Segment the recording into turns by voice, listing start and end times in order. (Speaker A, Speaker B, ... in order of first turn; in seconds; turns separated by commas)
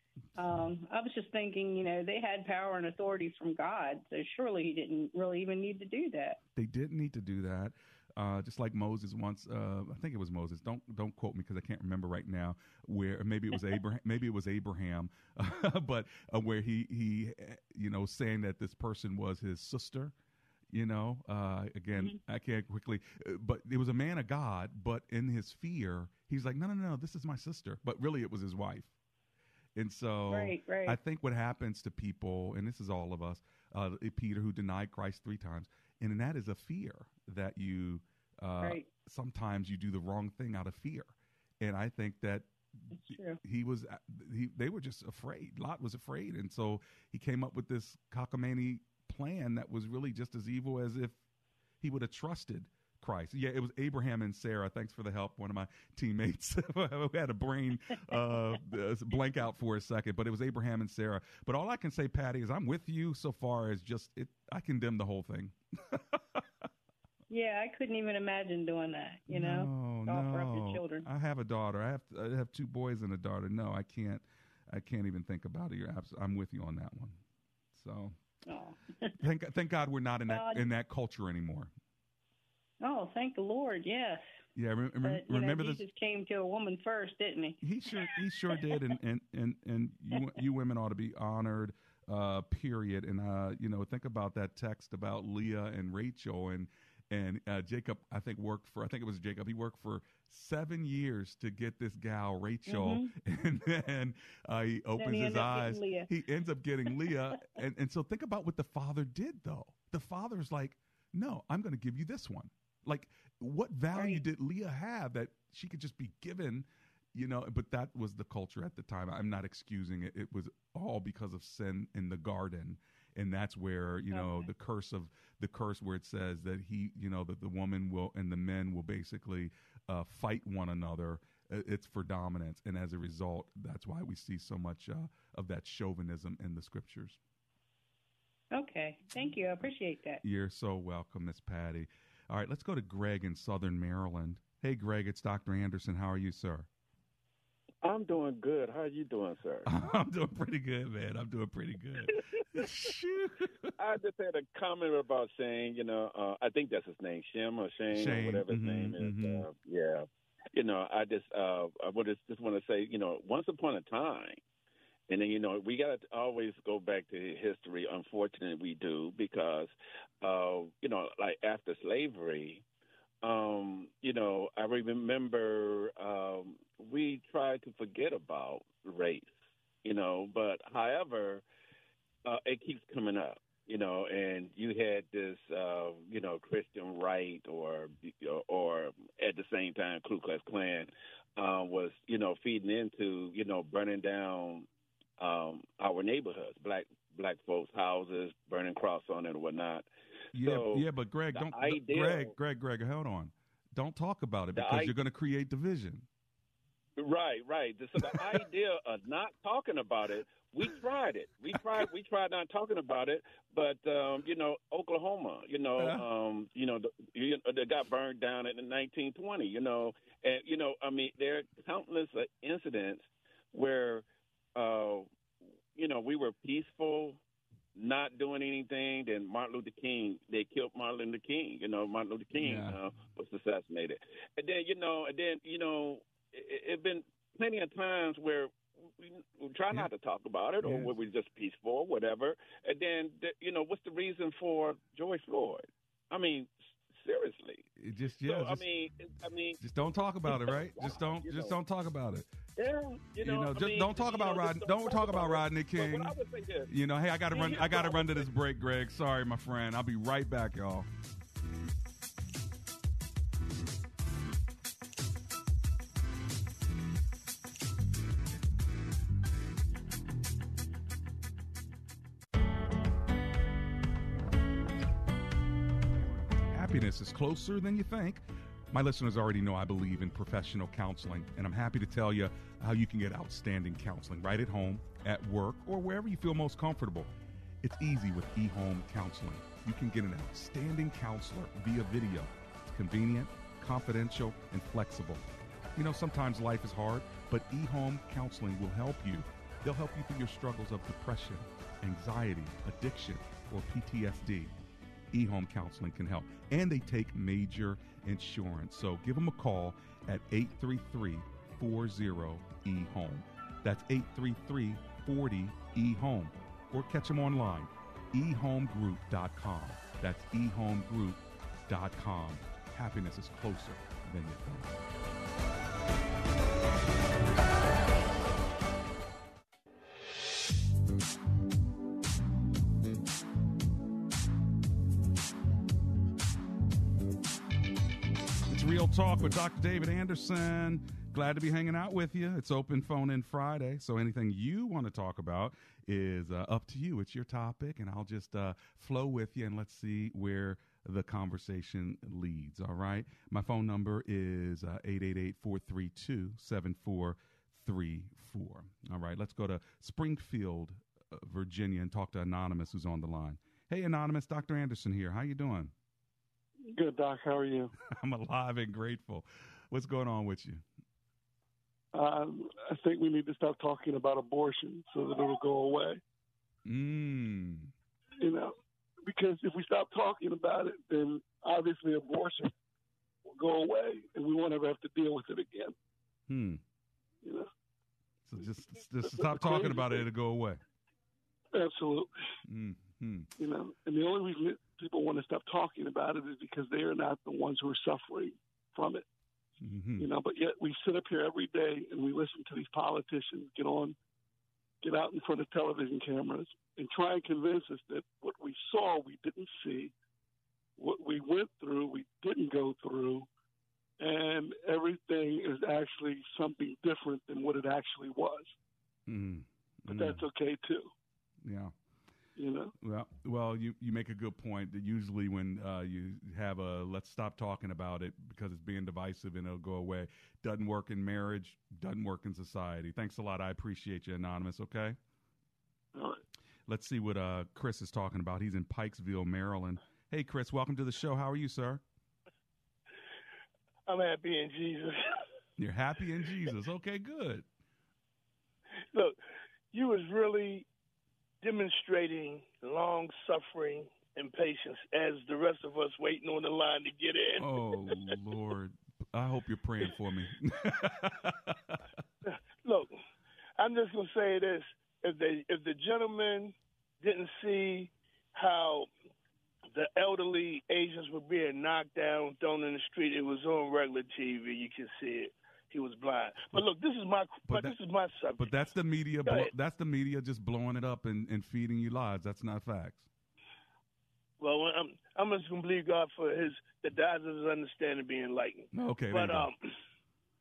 Speaker A: 0.4-6.4, Speaker B: 6.5-20.1, Speaker B: 20.7-28.9, Speaker B: 29.8-42.5, Speaker A: 30.3-31.0, Speaker A: 38.6-38.9, Speaker A: 42.9-43.4, Speaker B: 43.1-51.2, Speaker B: 51.8-66.4, Speaker A: 67.3-71.1, Speaker B: 69.3-77.2, Speaker B: 77.7-78.2, Speaker A: 78.5-79.2, Speaker B: 79.2-81.7, Speaker A: 80.3-80.7, Speaker A: 82.8-84.2, Speaker B: 84.6-85.8, Speaker A: 85.0-88.8, Speaker B: 87.6-137.2, Speaker A: 102.7-103.1, Speaker A: 105.0-106.1, Speaker A: 106.9-107.4, Speaker A: 113.9-114.3, Speaker A: 124.1-124.5, Speaker A: 138.5-140.2, Speaker B: 140.2-146.7, Speaker C: 147.8-149.7, Speaker B: 149.7-153.7, Speaker C: 153.8-164.4, Speaker B: 157.9-159.5, Speaker C: 165.1-172.6, Speaker C: 173.2-179.3, Speaker C: 179.8-181.4, Speaker C: 182.2-194.7, Speaker C: 195.2-202.3, Speaker B: 200.3-206.1, Speaker C: 204.6-204.9, Speaker C: 207.0-225.1, Speaker B: 208.0-208.4, Speaker B: 215.8-216.0, Speaker C: 225.7-227.2, Speaker C: 227.8-247.6, Speaker B: 232.4-232.8, Speaker B: 240.6-240.9, Speaker B: 247.8-248.7, Speaker C: 248.2-251.6, Speaker B: 249.6-252.3, Speaker C: 252.6-256.7, Speaker B: 253.2-256.2, Speaker B: 256.7-260.9, Speaker C: 257.3-258.3, Speaker B: 276.5-287.1, Speaker B: 287.6-295.2, Speaker B: 295.8-304.5, Speaker B: 305.1-324.8, Speaker B: 338.5-365.7, Speaker D: 366.7-367.7, Speaker B: 367.8-370.6, Speaker D: 371.9-376.0, Speaker B: 376.6-377.7, Speaker D: 378.2-378.5, Speaker D: 379.0-382.5, Speaker D: 383.3-385.8, Speaker B: 386.3-386.6, Speaker B: 388.2-390.6, Speaker D: 389.0-390.1, Speaker D: 391.5-392.1, Speaker B: 392.5-393.3, Speaker D: 393.4-399.1, Speaker B: 399.6-400.1, Speaker D: 400.0-404.0, Speaker D: 404.8-409.9, Speaker D: 410.8-413.3, Speaker D: 414.0-418.5, Speaker B: 419.1-420.2, Speaker D: 419.9-420.9, Speaker B: 421.4-421.7, Speaker D: 422.4-422.7, Speaker B: 422.8-435.0, Speaker D: 435.9-436.2, Speaker B: 436.7-441.8, Speaker E: 443.9-444.9, Speaker B: 445.6-447.5, Speaker E: 449.7-450.7, Speaker E: 451.4-457.5, Speaker B: 457.4-461.8, Speaker E: 462.3-462.9, Speaker E: 463.6-468.9, Speaker E: 469.7-478.5, Speaker B: 477.5-477.8, Speaker B: 478.4-483.1, Speaker E: 479.2-479.5, Speaker E: 484.4-489.6, Speaker B: 488.7-489.5